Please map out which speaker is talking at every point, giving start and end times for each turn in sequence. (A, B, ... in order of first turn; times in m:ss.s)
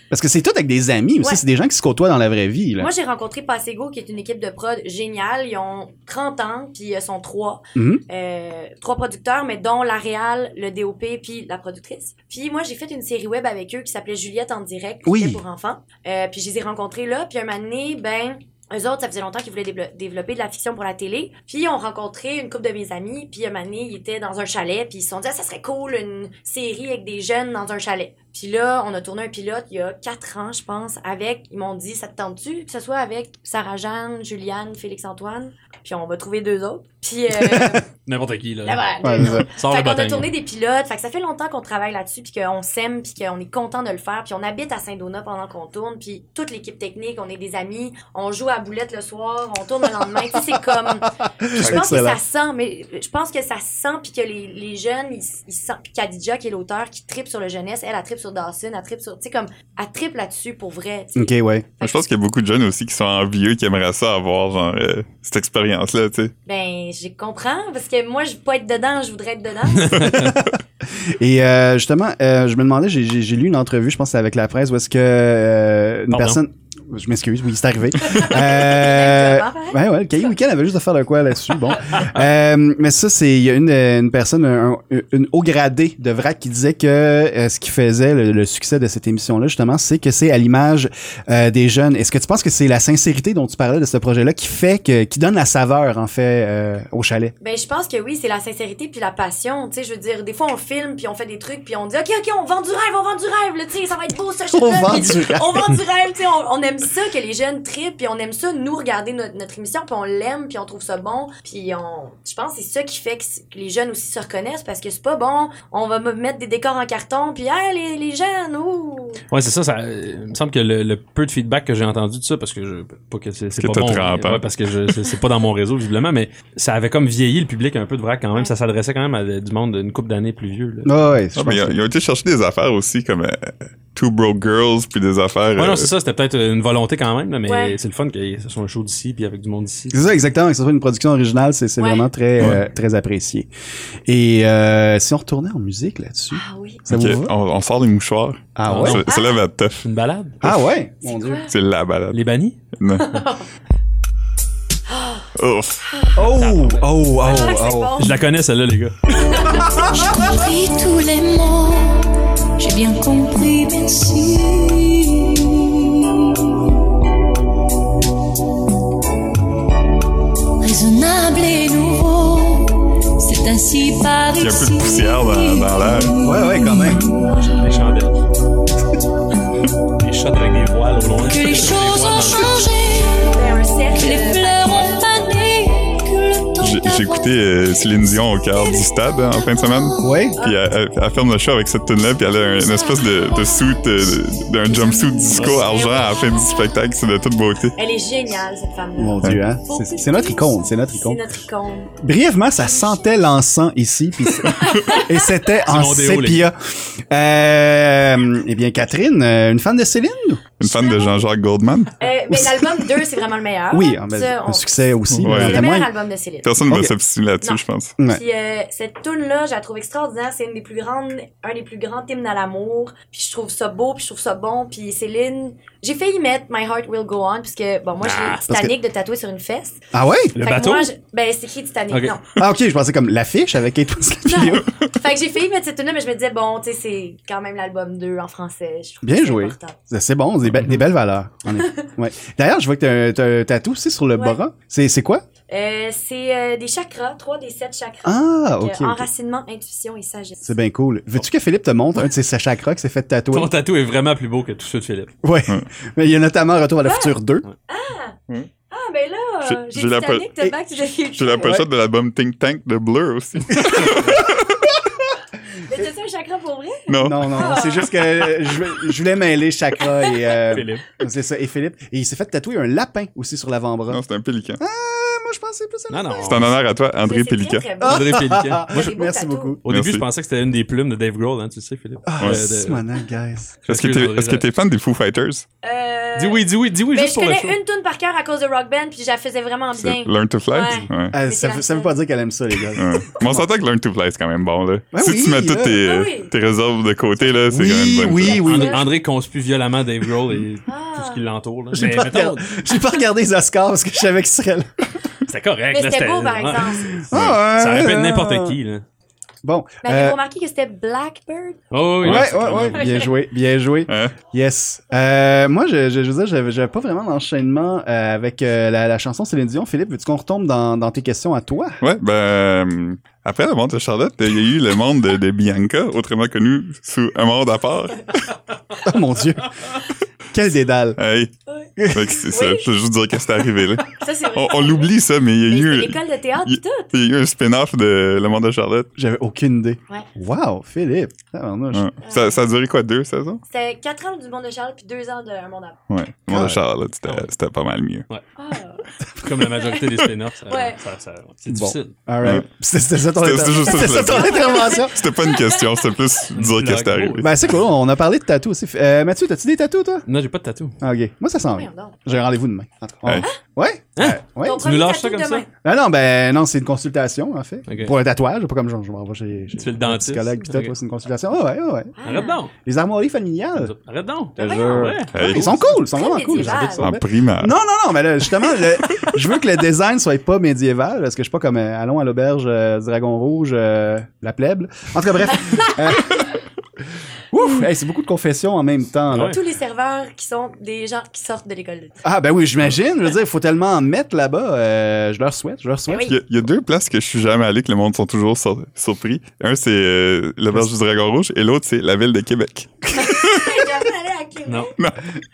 0:00.1-0:02.9 A
0:02.8-0:37.8 B
0:07.8-0:08.0 A
0:15.0-0:15.4 A
0:37.4-0:37.8 A
0:38.1-0:40.3 C
0:38.6-1:02.0 B
0:39.0-0:39.5 A
0:50.9-0:52.2 A
1:01.2-1:01.7 A
1:01.8-1:06.3 D
1:06.5-1:10.2 B
1:09.8-1:10.3 C
1:10.0-1:37.3 A
1:16.1-1:16.4 C
1:18.0-1:19.8 B
1:37.4-1:59.2 B
1:44.5-1:45.7 A
1:59.3-2:10.9 C
2:03.6-2:04.4 D
2:10.8-2:11.8 A
2:11.4-2:15.9 D
2:15.6-2:20.0 C
2:17.5-2:17.8 B
2:19.9-2:23.5 A
2:21.8-2:22.1 B
2:24.1-2:27.3 A
2:26.3-2:26.8 B
2:26.9-2:29.8 D
2:28.6-2:29.0 A
2:28.7-2:29.0 C
2:29.1-2:29.4 B
2:29.8-2:30.4 C
2:30.4-2:31.4 A
2:31.0-2:31.5 B
2:31.5-2:32.2 D
2:32.1-2:32.6 C
2:32.8-2:33.2 D
2:33.0-2:33.5 B
2:34.9-2:35.3 B
2:35.4-2:35.8 D
2:36.2-2:38.0 A
2:36.3-2:37.3 C
2:37.2-2:38.3 B
2:38.0-2:39.3 C
2:39.2-2:39.8 B
2:39.6-2:39.9 A
2:40.1-2:45.5 E
2:50.6-2:57.7 E
2:54.4-2:56.2 D
2:56.2-2:57.2 A
2:57.4-2:58.1 C
3:00.0-3:02.7 C
3:01.3-3:03.4 E
3:03.3-3:05.3 B
3:04.0-3:07.4 E
3:06.6-3:17.8 D
3:08.6-3:08.9 E
3:09.4-3:10.3 E
3:10.0-3:10.4 A
3:15.3-3:15.8 C
3:15.4-3:16.0 B
3:17.8-3:22.0 B
3:19.0-3:21.2 A
3:22.0-3:30.4 A
3:22.6-3:23.2 B
3:24.5-3:25.2 B
3:25.6-3:26.5 C
3:30.6-3:32.0 D
3:30.6-3:31.2 B
3:32.0-3:36.5 B
3:33.7-3:35.9 A
3:35.1-3:35.8 D
3:36.4-3:37.9 D
3:37.4-3:49.8 B
3:48.0-3:48.4 C
3:49.9-3:50.3 A
3:50.4-3:50.9 C
3:50.4-3:52.3 B
3:52.4-3:54.7 A
3:54.3-3:59.8 B
3:59.0-4:05.2 A
4:05.5-4:10.5 B
4:08.0-4:09.1 A
4:10.4-4:13.5 A
4:13.3-4:15.1 C
4:15.2-4:17.4 A
4:16.8-4:17.2 B
4:17.7-4:18.2 B
4:18.7-4:21.6 B
4:19.4-4:20.3 D
4:21.1-4:24.6 D
4:21.4-4:21.7 A
4:23.5-4:24.9 A
4:25.7-4:28.0 B
4:26.9-4:27.6 D
4:27.0-4:34.0 A
4:30.5-4:30.8 C
4:33.9-4:34.6 D
4:34.6-4:36.5 A
4:35.9-4:36.5 C
4:36.2-4:37.6 D
4:37.0-4:39.6 B
4:37.8-4:39.6 A
4:37.9-4:38.9 C
4:39.6-4:42.8 C
4:39.7-4:40.0 D
4:42.1-4:43.6 A
4:43.6-4:44.5 C
4:43.7-4:45.5 D
4:45.6-4:52.0 B
4:46.2-4:47.6 C
4:49.8-4:51.2 D
4:51.1-4:53.5 A
4:52.8-4:58.4 D
4:54.9-4:55.8 A
4:55.8-4:56.3 B
4:57.5-4:58.9 A
4:58.2-5:02.6 C
4:58.4-4:58.9 B
5:00.7-5:01.2 B
5:01.7-5:04.9 A
5:05.3-5:08.8 C
5:05.7-5:07.1 B
5:07.1-5:08.6 A
5:07.1-5:07.4 D
5:09.4-5:10.2 A
5:09.8-5:11.6 B
5:11.7-5:12.9 C
5:12.0-5:21.8 A
5:12.0-5:12.4 D
5:12.7-5:13.1 B
5:13.9-5:14.2 D
5:21.8-5:28.3 D
5:28.8-5:29.5 A
5:30.3-5:31.0 A
5:31.0-5:31.3 D
5:31.8-5:32.2 A
5:31.9-5:38.9 D
5:32.3-5:32.7 B
5:34.0-5:34.9 B
5:35.5-5:37.0 B
5:39.0-5:41.9 A
5:41.7-5:43.4 D
5:42.0-5:42.4 B
5:43.5-5:45.8 B
5:45.9-5:48.1 D
5:46.3-5:46.6 A
5:48.4-5:48.9 B
5:49.2-5:52.0 C
5:50.5-5:50.8 B
5:51.5-5:55.0 A
5:53.1-5:57.3 D
5:53.6-5:55.6 B
5:56.3-5:57.6 C
5:57.2-6:00.0 A
6:00.1-6:00.8 C
6:00.8-6:04.7 A
6:01.5-6:02.0 B
6:04.0-6:05.4 C
6:04.4-6:05.5 B
6:05.6-6:11.9 A
6:07.7-6:08.0 C
6:09.6-6:10.7 C
6:12.0-6:12.4 B
6:12.0-6:12.5 C
6:12.6-6:13.7 A
6:13.6-6:15.8 C
6:14.4-6:26.3 A
6:14.4-6:14.9 B
6:15.1-6:15.5 D
6:15.9-6:16.9 B
6:16.8-6:17.6 D
6:25.4-6:25.8 B
6:27.3-6:29.4 A
6:29.1-6:29.4 C
6:29.2-6:32.0 B
6:32.0-6:36.1 A
6:35.9-6:36.2 B
6:36.0-6:43.7 D
6:43.0-6:44.7 B
6:44.8-6:45.2 D